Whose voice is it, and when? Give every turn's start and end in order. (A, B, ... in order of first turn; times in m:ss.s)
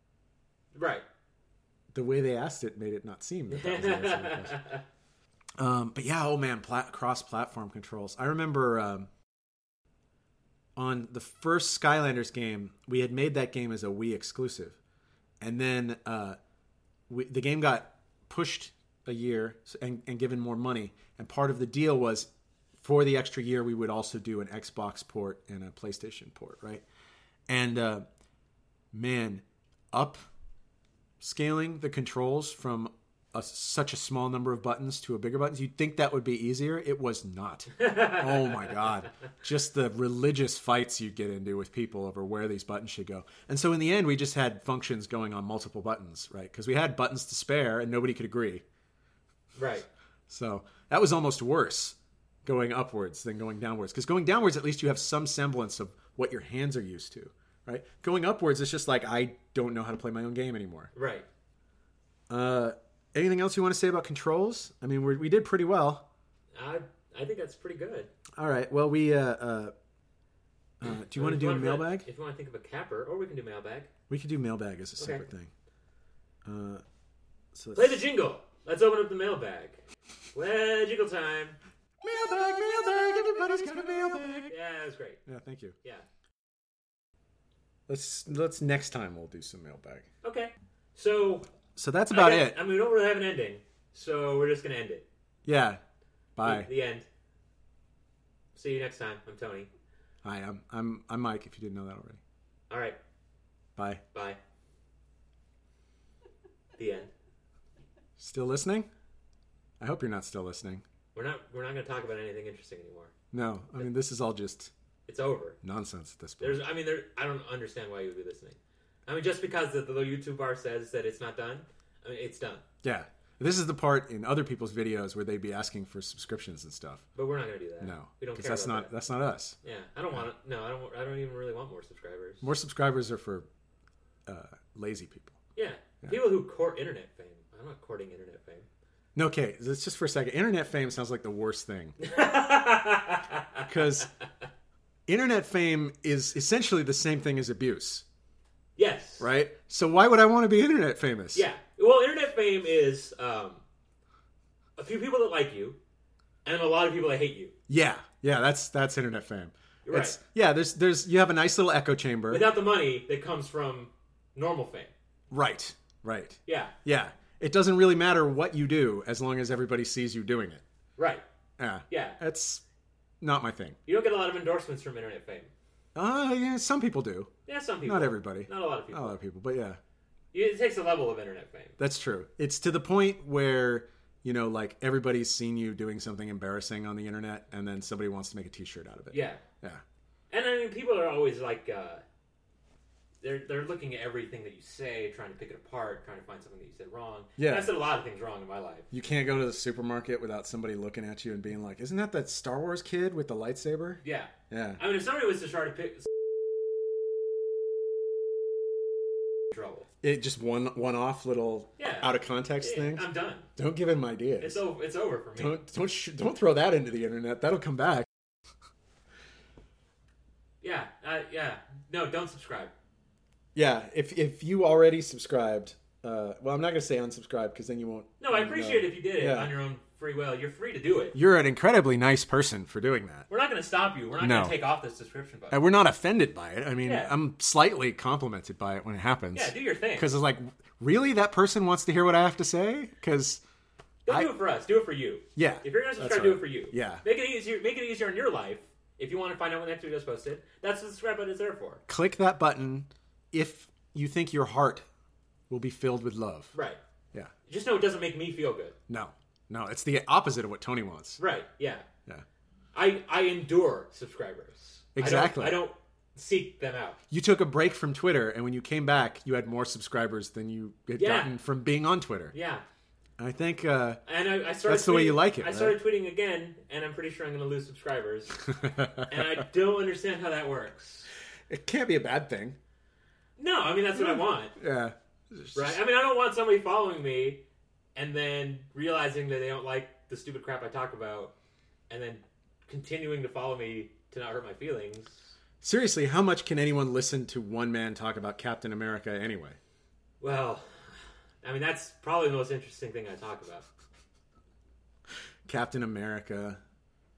0:00.7-0:01.0 A
0:01.9-0:04.6 B
0:03.5-0:04.8 A
0:05.6-0:09.1 B
0:10.8-0:14.8 B
0:15.4-0:16.4 B
0:17.1-0:26.8 B
0:27.5-0:28.0 B
0:28.9-0:30.2 B
0:31.2-0:48.6 B
0:37.8-0:38.8 A
0:49.6-0:49.9 A
0:50.3-1:00.9 B
1:00.9-1:01.3 A
1:02.3-1:06.0 B
1:06.6-1:08.1 A
1:08.4-1:09.7 B
1:10.8-1:12.1 B
1:11.2-1:13.9 A
1:14.1-1:15.5 B
1:15.0-1:15.2 A
1:16.4-1:16.8 B
1:17.6-1:18.0 B
1:17.8-1:19.8 A
1:20.3-1:21.6 A
1:22.0-1:24.5 B
1:24.5-1:25.2 A
1:25.3-1:25.8 B
1:27.9-1:30.1 B
1:30.2-1:31.5 A
1:31.8-1:32.6 B
1:32.1-1:35.1 A
1:35.4-1:35.8 B
1:36.4-1:36.7 B
1:36.4-1:37.1 A
1:38.6-1:39.7 A
1:40.2-1:42.2 B
1:42.7-1:43.0 A
1:43.8-1:44.0 B
1:44.1-1:44.4 A
1:46.8-1:47.1 A
1:48.2-1:48.9 B
1:49.8-1:50.8 B
1:51.1-1:53.1 A
1:53.3-1:54.7 B
1:55.1-1:55.6 A
1:55.6-1:56.6 B
1:56.4-2:02.6 A
2:02.8-2:07.1 B
2:07.1-2:08.9 A
2:07.8-2:09.6 B
2:09.6-2:12.5 A
2:12.4-2:13.5 B
2:14.3-2:15.4 B
2:15.6-2:18.7 A
2:19.1-2:22.0 B
2:22.0-2:24.1 A
2:23.7-2:24.1 B
2:25.1-2:28.0 B
2:28.8-2:29.3 A
2:29.2-2:31.5 B
2:31.3-2:33.6 A
2:34.8-2:35.8 A
2:36.4-2:37.6 A
2:37.7-2:42.5 B
2:39.8-2:40.2 A
2:42.3-2:44.9 A
2:45.3-2:50.6 B
2:46.5-2:46.8 A
2:51.0-2:51.2 A
2:51.6-2:52.6 B
2:51.9-2:52.2 A
2:53.2-2:53.8 B
2:53.9-2:55.5 A
2:55.9-2:57.3 B
2:57.5-2:59.2 A
2:57.8-2:59.8 B
3:00.3-3:01.8 A
3:01.8-3:09.8 B
3:09.1-3:09.4 A
3:10.3-3:12.0 A
3:13.2-3:18.9 A
3:17.4-3:17.7 B
3:18.9-3:24.8 B
3:24.0-3:26.1 A
3:29.5-3:29.9 A
3:30.0-3:34.6 B
3:31.8-3:32.1 A
3:32.6-3:33.5 A
3:34.4-3:35.6 A
3:35.4-3:38.1 B
3:40.6-3:42.7 A
3:43.6-3:49.5 B
3:48.2-3:51.2 A
3:51.1-3:53.3 B
3:53.3-3:55.6 A
3:54.2-3:54.6 B
3:55.5-4:03.4 B
3:56.8-3:57.1 A
3:59.3-4:00.1 A
4:04.1-4:11.8 A
4:04.1-4:04.3 B
4:05.4-4:07.0 B
4:11.9-4:14.8 B
4:15.5-4:16.5 B
4:16.5-4:16.8 A
4:17.5-4:18.8 A
4:18.9-4:21.2 B
4:21.2-4:21.9 A
4:22.7-4:27.0 A
4:24.9-4:25.6 B
4:27.1-4:32.4 B
4:31.0-4:31.4 A
4:32.3-4:32.6 A
4:33.2-4:34.0 B
4:34.1-4:38.4 A
4:34.6-4:35.8 B
4:38.5-4:39.4 B
4:39.1-4:41.1 A
4:41.5-4:42.6 B
4:43.4-4:44.6 A
4:43.9-4:45.8 B
4:45.6-4:47.4 A
4:48.0-4:51.3 A
4:51.9-4:55.3 A
4:55.6-4:59.6 B
5:00.2-5:03.6 A
5:05.5-5:06.6 B